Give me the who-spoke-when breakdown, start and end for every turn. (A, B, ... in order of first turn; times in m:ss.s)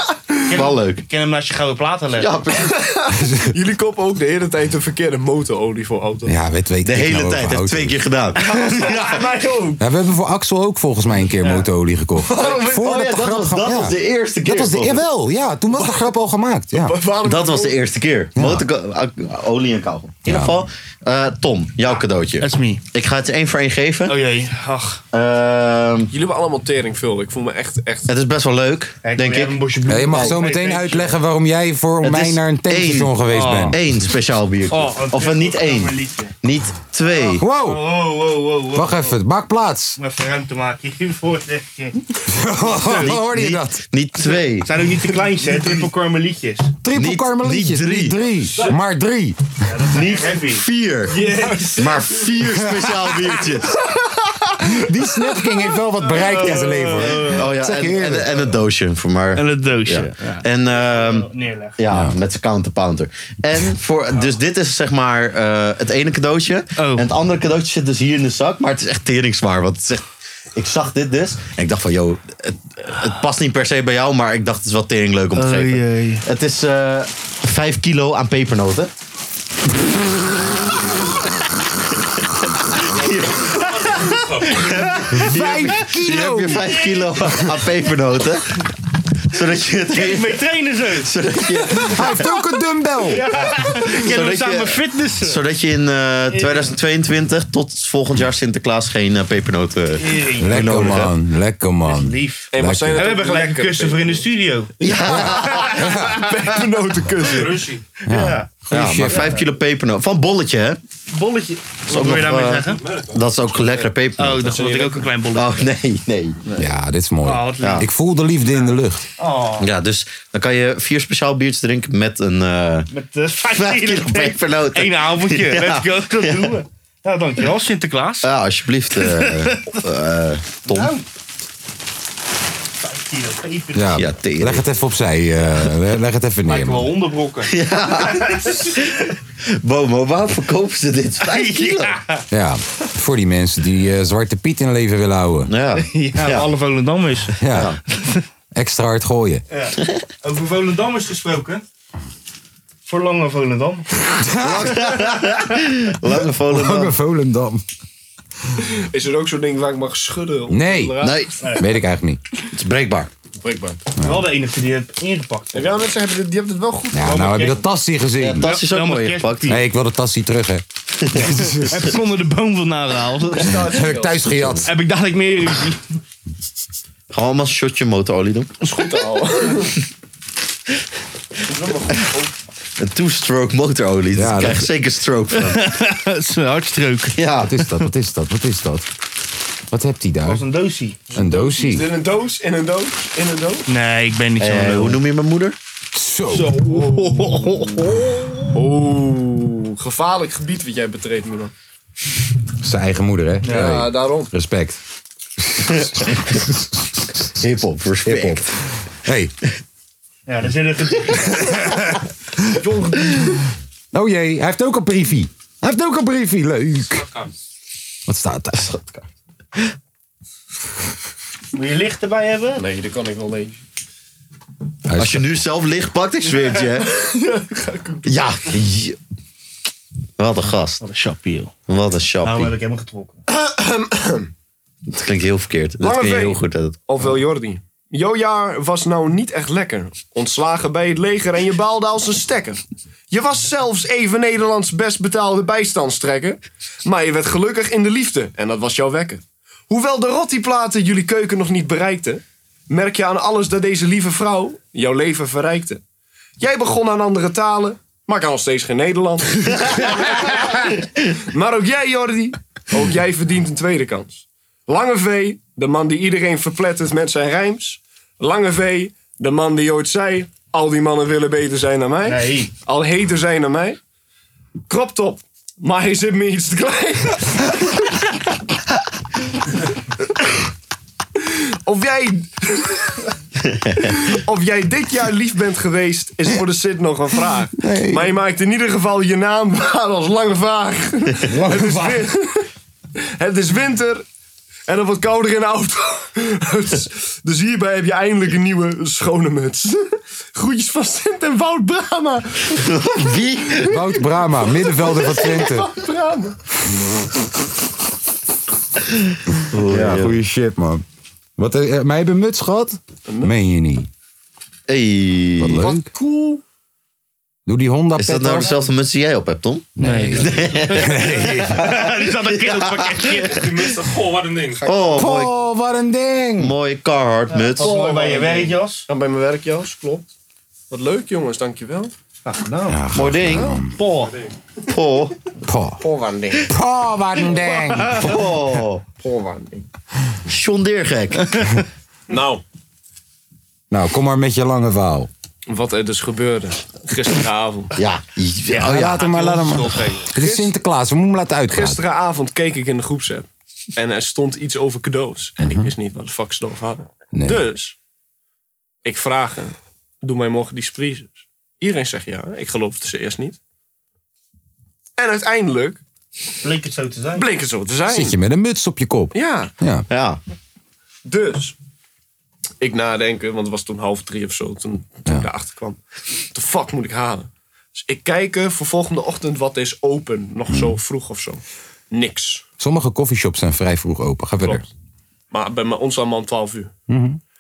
0:00.4-0:02.3 A
0:00.5-0:01.0 B
0:02.2-0:02.9 B
0:02.6-0:06.3 C
0:03.2-0:03.5 D
0:06.3-0:08.0 D
0:06.8-0:09.2 B
0:08.4-0:09.8 A
0:09.8-0:17.0 D
0:12.3-0:15.0 B
0:16.7-0:17.9 C
0:17.2-0:24.2 B
0:18.4-0:18.6 D
0:20.3-0:20.6 D
0:22.4-0:22.8 A
0:24.1-0:25.0 A
0:25.1-0:26.1 B
0:26.1-0:28.1 C
0:28.1-0:30.4 B
0:29.0-0:31.2 A
0:29.9-0:33.8 D
0:32.0-0:37.4 B
0:33.3-0:33.8 A
0:34.7-0:36.3 A
0:37.1-0:39.1 A
0:37.4-0:37.8 D
0:38.8-0:40.0 D
0:40.0-0:42.0 A
0:42.3-0:43.8 D
0:42.6-0:43.1 A
0:42.9-0:44.8 B
0:44.6-0:46.7 A
0:45.4-0:45.8 C
0:46.8-0:49.4 D
0:46.9-0:48.2 B
0:49.6-0:52.0 A
0:49.9-0:53.8 B
0:52.7-0:53.0 D
0:54.6-0:58.4 D
0:56.1-0:57.4 A
0:57.1-1:10.0 B
0:59.4-1:01.8 A
1:06.8-1:07.1 A
1:10.6-1:18.9 B
1:15.4-1:16.2 A
1:22.6-1:28.6 B
1:23.1-1:24.8 E
1:25.1-1:26.7 D
1:26.7-1:27.1 A
1:29.3-1:32.3 B
1:29.9-1:31.1 A
1:31.8-1:33.2 D
1:33.1-1:35.4 A
1:33.8-1:41.1 B
1:36.3-1:36.7 A
1:40.0-1:40.9 A
1:40.4-1:43.0 D
1:41.8-1:46.1 A
1:42.5-1:44.3 C
1:44.8-1:45.8 B
1:45.8-1:46.2 D
1:46.1-1:47.7 C
1:47.2-1:47.8 E
1:48.1-1:49.3 D
1:48.1-1:48.5 A
1:48.7-1:50.8 B
1:49.0-1:49.4 A
1:51.1-1:52.8 A
1:51.9-1:54.6 B
1:52.8-1:53.2 E
1:54.2-1:55.6 A
1:54.4-1:55.0 C
1:55.3-1:56.4 B
1:56.6-1:59.0 D
1:57.2-1:57.8 A
1:57.6-1:57.9 B
1:59.2-1:59.7 A
1:59.6-2:02.9 B
2:02.9-2:08.3 A
2:03.5-2:06.6 B
2:08.2-2:10.9 B
2:08.9-2:09.8 A
2:10.7-2:11.0 A
2:12.8-2:14.0 A
2:13.8-2:16.9 D
2:13.9-2:14.7 B
2:16.4-2:18.7 A
2:17.5-2:19.0 B
2:19.6-2:22.0 B
2:21.3-2:22.2 A
2:22.3-2:25.5 D
2:25.5-2:26.5 B
2:25.8-2:27.4 A
2:27.4-2:27.8 D
2:27.5-2:27.8 B
2:28.5-2:29.4 D
2:29.5-2:31.6 A
2:32.9-2:33.9 A
2:34.1-2:34.9 D
2:34.4-2:36.9 B
2:36.5-2:37.6 D
2:38.6-2:41.2 C
2:40.5-2:42.2 D
2:41.0-2:41.5 B
2:42.5-2:43.1 B
2:43.4-2:43.8 C
2:44.0-2:44.3 D
2:44.0-2:45.7 A
2:45.5-2:47.1 C
2:46.9-2:48.5 D
2:47.0-2:47.6 A
2:48.2-2:49.6 B
2:48.4-2:49.6 A
2:49.5-2:51.9 D
2:51.0-2:51.6 B
2:51.6-2:53.7 A
2:53.3-2:54.2 C
2:53.5-2:54.7 D
2:54.3-2:54.6 B
2:54.6-2:55.8 A
2:57.1-2:58.6 B
2:58.6-2:59.7 C
3:01.5-3:02.3 C
3:02.8-3:05.7 B
3:04.1-3:04.7 D
3:05.4-3:07.2 A
3:07.1-3:07.7 B
3:07.4-3:08.9 D
3:09.7-3:10.4 D
3:10.2-3:11.1 A
3:11.1-3:11.9 D
3:11.2-3:13.6 C
3:13.7-3:15.0 A
3:14.4-3:15.6 B
3:15.9-3:16.6 D
3:16.3-3:18.6 A
3:16.6-3:17.6 C
3:18.5-3:21.5 C
3:22.6-3:24.8 D
3:23.4-3:23.7 A
3:23.4-3:24.3 C
3:25.6-3:26.6 D
3:25.7-3:26.4 B
3:27.4-3:28.6 B
3:28.1-3:29.3 D
3:30.3-3:31.6 A
3:31.5-3:31.8 D
3:32.5-3:33.4 C
3:33.9-3:37.1 D
3:38.1-3:38.7 D
3:38.6-3:39.1 B
3:41.6-3:42.6 A
3:42.6-3:43.6 C
3:44.9-3:45.3 D
3:45.0-3:46.9 B
3:46.9-3:48.4 C
3:48.0-3:49.0 B
3:50.2-3:50.8 B
3:50.8-3:51.5 A
3:51.7-3:52.6 B
3:52.2-3:53.2 A
3:53.3-3:54.3 C
3:54.9-3:56.8 B
3:55.8-4:15.8 C
4:16.4-4:33.8 C
4:32.0-4:32.5 A
4:34.7-4:37.6 C
4:41.6-4:43.0 C
4:43.5-4:43.8 B
4:44.0-4:52.5 C
4:47.6-4:48.1 D
4:51.2-4:52.1 D
4:53.2-4:54.0 C
4:54.7-5:02.7 C
5:02.6-5:04.0 B
5:03.6-5:05.7 D
5:04.8-5:06.4 C
5:09.5-5:10.2 B
5:09.6-5:10.8 D
5:11.4-5:13.9 D
5:13.1-5:13.3 C
5:14.7-5:15.6 B
5:15.4-5:15.9 D
5:15.6-5:16.4 C
5:17.4-5:18.6 D
5:18.0-5:23.8 B
5:19.8-5:23.5 A
5:19.8-5:21.6 D
5:23.3-5:24.7 E
5:24.6-5:25.3 B
5:24.9-5:26.5 D
5:26.4-5:28.0 B
5:27.3-5:28.9 A
5:27.6-5:30.1 C
5:30.7-5:31.9 C
5:32.2-5:32.8 A
5:32.7-5:33.7 D
5:32.9-5:33.6 B
5:33.1-5:33.6 C
5:33.8-5:34.1 A
5:34.0-5:34.3 E
5:34.7-5:35.1 B
5:35.4-5:35.8 D
5:35.8-5:36.5 C
5:36.4-5:38.1 D
5:37.9-5:38.8 B
5:39.0-5:39.6 C
5:40.3-5:41.6 B
5:42.1-5:42.4 C
5:43.7-5:45.1 D
5:45.5-5:47.8 C
5:47.8-5:49.0 B
5:48.5-5:50.0 A
5:48.6-5:51.8 D
5:50.1-5:50.5 C
5:51.5-5:57.8 C
5:55.4-5:55.7 D
5:57.1-5:57.4 D
5:58.8-6:03.4 C
6:05.0-6:05.8 C
6:06.4-6:07.2 A
6:07.1-6:08.2 C
6:07.9-6:09.9 D
6:09.1-6:09.5 C
6:09.9-6:10.2 B
6:11.0-6:11.6 C
6:12.6-6:15.8 C
6:16.3-6:22.4 C
6:20.5-6:20.8 D
6:22.6-6:24.6 D
6:25.3-6:26.7 C
6:26.9-6:27.2 D